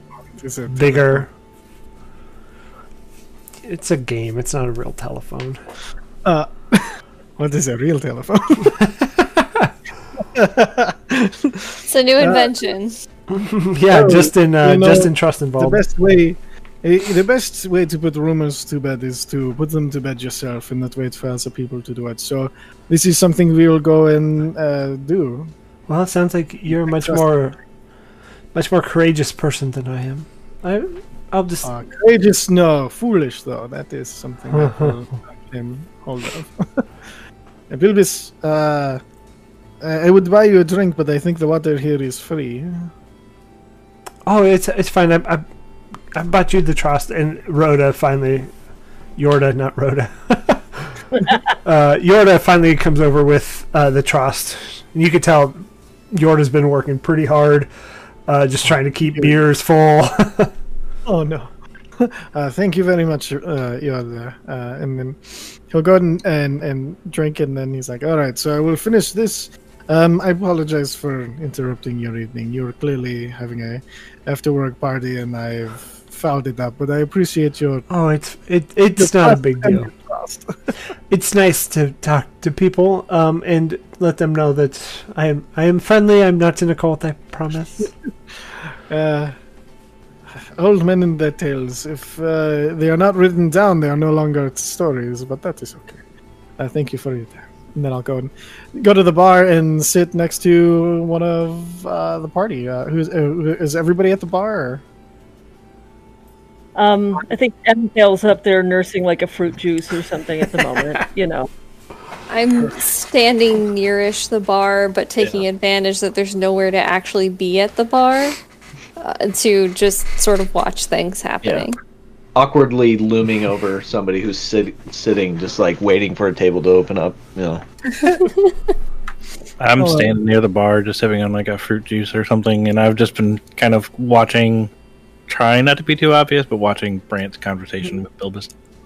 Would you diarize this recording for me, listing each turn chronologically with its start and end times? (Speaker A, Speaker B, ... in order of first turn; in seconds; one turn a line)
Speaker A: 0.3-1.3
Speaker B: 0.7-1.3
Speaker B: 3.6-5.6
Speaker A: 6.2-8.7
Speaker B: 8.7-9.7
Speaker A: 10.2-12.4
Speaker C: 11.9-13.0
Speaker B: 13.3-15.8
Speaker A: 13.9-25.5
Speaker B: 25.9-27.6
Speaker A: 26.7-27.3
Speaker B: 28.5-31.7
Speaker A: 31.6-36.9
Speaker B: 34.5-35.0
Speaker A: 37.7-39.0
Speaker A: 39.8-42.9
Speaker B: 44.3-45.4
Speaker B: 46.1-48.5
Speaker B: 49.2-51.0
Speaker B: 51.6-57.7
Speaker B: 58.3-60.5
Speaker A: 58.7-59.4
Speaker A: 61.1-77.9
Speaker B: 77.9-79.9
Speaker A: 79.0-80.7
Speaker B: 81.1-87.9
Speaker A: 88.7-89.4
Speaker A: 90.3-96.0
Speaker A: 96.6-104.8
Speaker D: 106.8-111.5
Speaker C: 112.3-118.4
Speaker C: 119.0-121.8
Speaker E: 122.3-127.6
Speaker F: 129.6-134.7
Speaker A: 129.8-130.2
Speaker F: 135.3-138.5